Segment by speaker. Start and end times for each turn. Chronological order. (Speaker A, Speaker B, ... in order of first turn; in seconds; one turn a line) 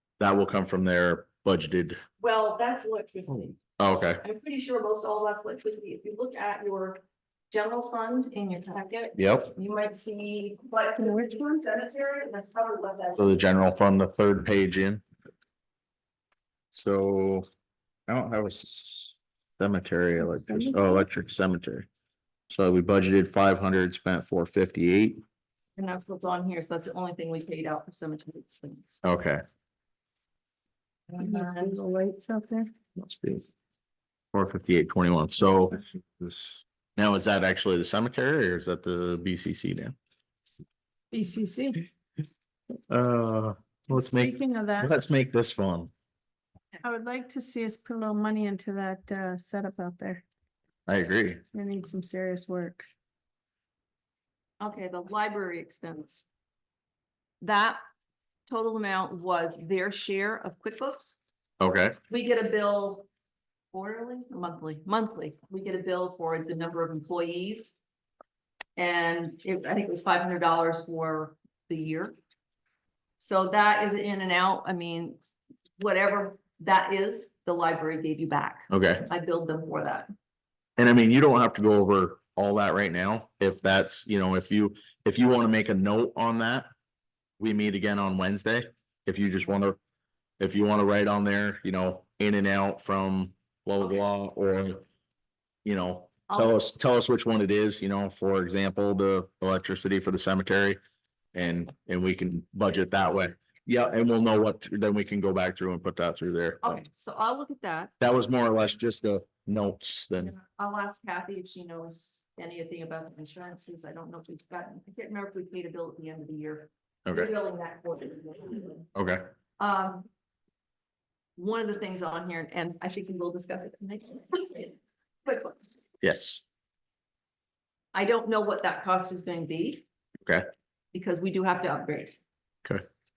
Speaker A: 0.2-2.0
Speaker B: 2.2-3.6
Speaker A: 3.8-4.2
Speaker B: 4.2-13.3
Speaker A: 9.2-9.5
Speaker C: 11.0-11.4
Speaker A: 13.2-15.0
Speaker A: 16.7-17.5
Speaker A: 18.1-21.9
Speaker C: 20.4-21.0
Speaker A: 22.5-25.2
Speaker B: 25.8-29.0
Speaker A: 29.0-29.4
Speaker B: 31.1-31.8
Speaker C: 31.2-32.7
Speaker A: 33.0-33.5
Speaker A: 34.3-35.8
Speaker A: 37.0-40.0
Speaker C: 41.1-41.9
Speaker A: 42.9-45.9
Speaker C: 43.9-44.9
Speaker C: 46.8-50.2
Speaker A: 50.9-51.4
Speaker C: 51.5-52.9
Speaker B: 54.6-56.3
Speaker B: 57.4-57.8
Speaker B: 58.5-61.2
Speaker A: 61.6-62.0
Speaker B: 62.1-63.1
Speaker B: 63.7-67.8
Speaker B: 68.8-72.2
Speaker B: 73.2-75.2
Speaker B: 75.8-80.1
Speaker A: 78.7-79.1
Speaker A: 80.8-86.7
Speaker A: 87.4-89.8
Speaker A: 90.4-94.8
Speaker A: 95.6-100.8
Speaker B: 96.3-96.5
Speaker A: 101.3-106.8
Speaker B: 106.6-107.9
Speaker A: 108.0-110.3
Speaker B: 110.2-118.9
Speaker A: 118.9-119.2
Speaker B: 119.6-120.1
Speaker B: 121.4-125.8
Speaker A: 126.0-126.4
Speaker B: 127.9-129.8
Speaker B: 130.9-132.2